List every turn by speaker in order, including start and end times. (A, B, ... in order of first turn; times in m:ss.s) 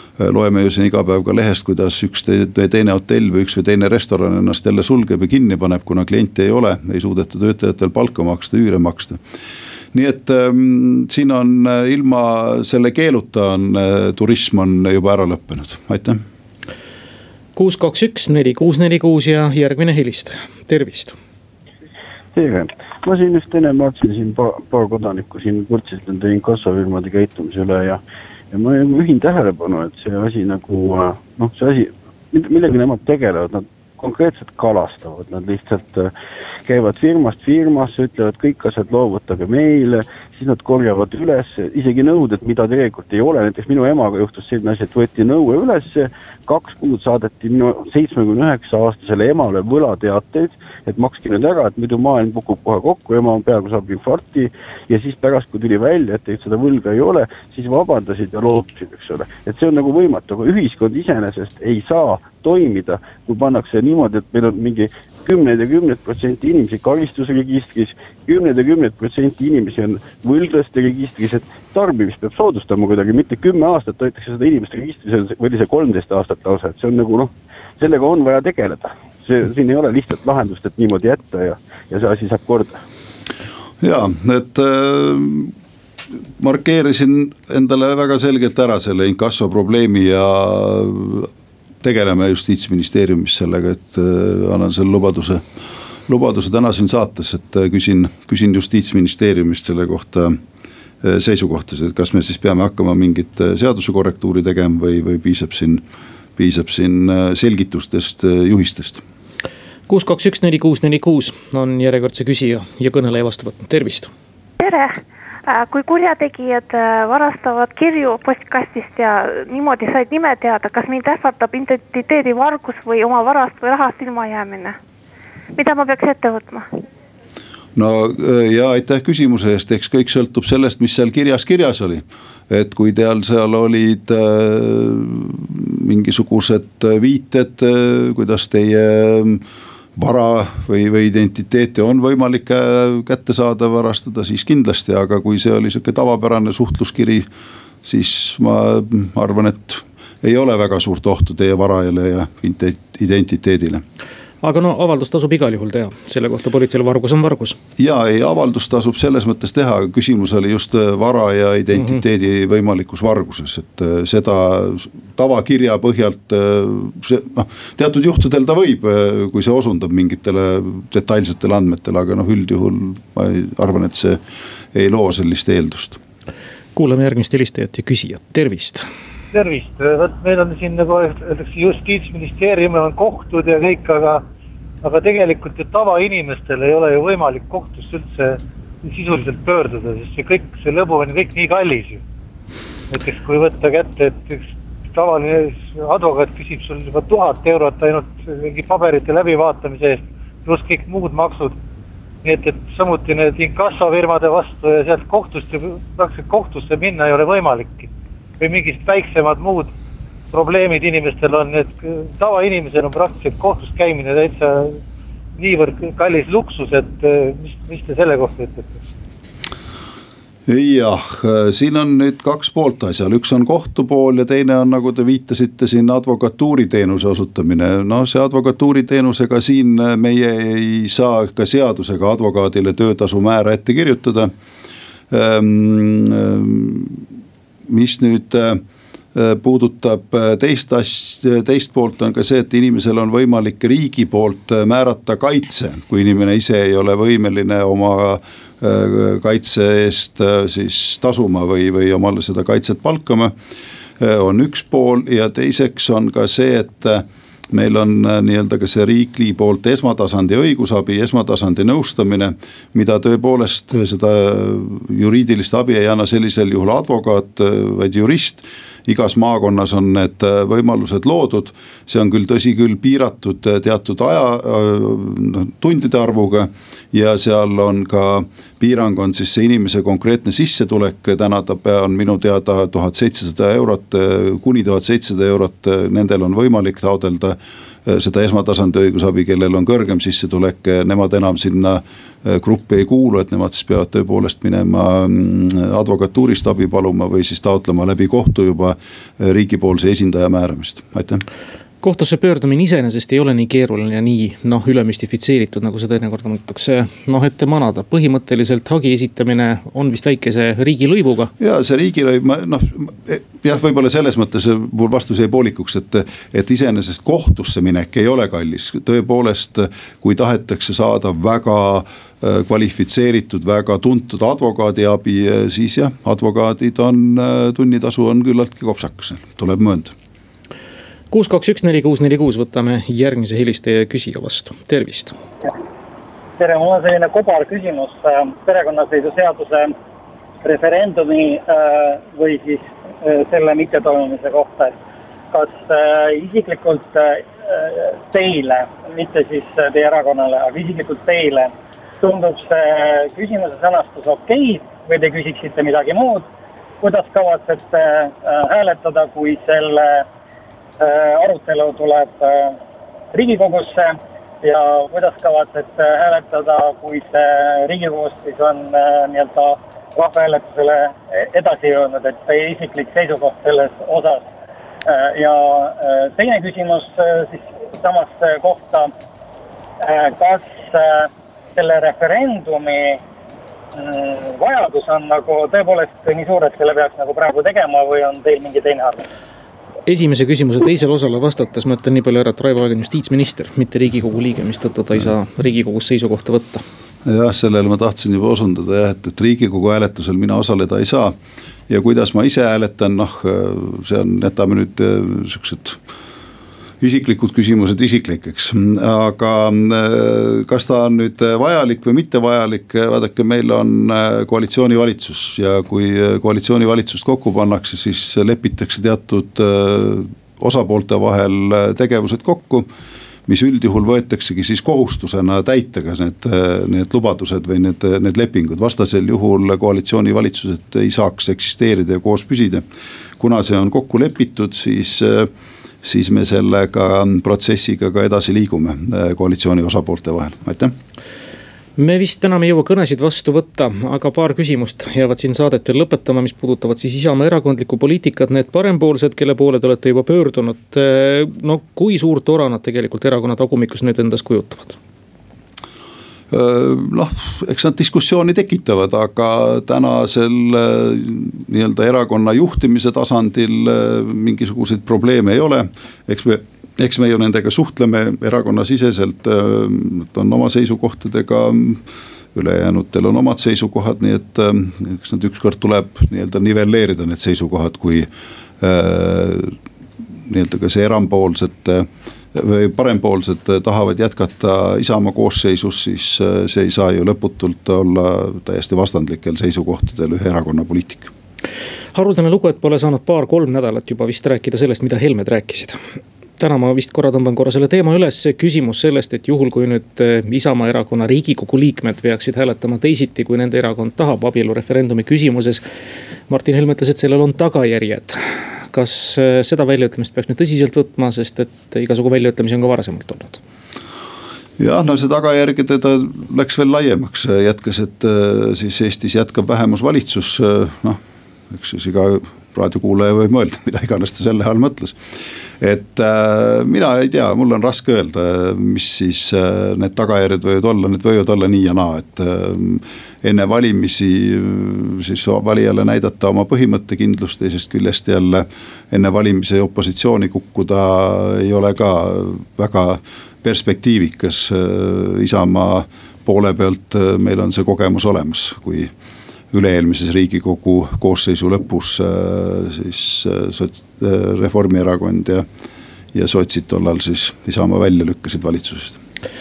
0:00.2-0:09.2 A
0:09.9-0:16.2 A
0:17.6-0:21.2 B
0:22.3-0:28.0 C
0:28.5-0:36.1 C
0:36.6-1:22.8 C
1:23.8-1:25.5 A
1:26.4-1:31.3 A
1:31.8-1:35.4 A
1:36.1-1:40.4 A
1:41.0-1:45.8 A
1:46.4-1:49.0 A
1:49.9-1:54.1 B
1:54.6-2:04.8 D
2:05.6-2:06.7 D
2:07.8-2:19.4 A
2:20.0-2:27.3 A
2:27.8-2:33.8 A
2:34.4-2:37.6 B
2:37.8-2:54.2 A
2:54.7-2:56.0 A
2:56.7-2:58.8 B
2:59.3-3:04.2 E
3:04.8-3:12.0 E
3:12.9-3:21.5 E
3:22.2-3:29.7 E
3:30.3-3:34.8 E
3:35.4-3:38.8 E
3:40.5-3:54.3 A
3:55.1-3:57.1 A
3:57.7-3:58.6 A
3:59.1-4:13.3 A
4:14.0-5:01.2 A
5:01.8-5:11.3 B
5:11.4-5:29.9 A
5:31.1-5:35.1 B
5:36.4-5:39.7 F
5:40.4-5:44.7 F
5:45.3-5:56.3 F
5:56.8-6:00.0 F
6:00.8-6:02.6 F
6:03.1-6:14.3 F
6:14.8-6:18.9 F
6:19.8-6:23.0 F
6:23.7-6:29.0 F
6:29.9-6:36.6 B
6:37.0-6:41.2 A
6:41.7-6:45.8 A
6:46.8-7:02.7 A
7:03.3-7:12.6 A
7:13.2-7:15.3 A
7:15.8-7:20.7 A
7:21.8-7:34.8 B
7:36.3-7:58.1 A
7:58.6-7:59.6 A
8:00.3-8:11.1 A
8:11.9-8:15.8 B
8:16.4-8:25.6 B
8:26.3-8:33.4 B
8:34.6-8:41.0 A
8:41.5-8:45.0 A
8:45.6-9:08.9 A
9:09.5-9:15.5 A
9:16.1-9:19.0 A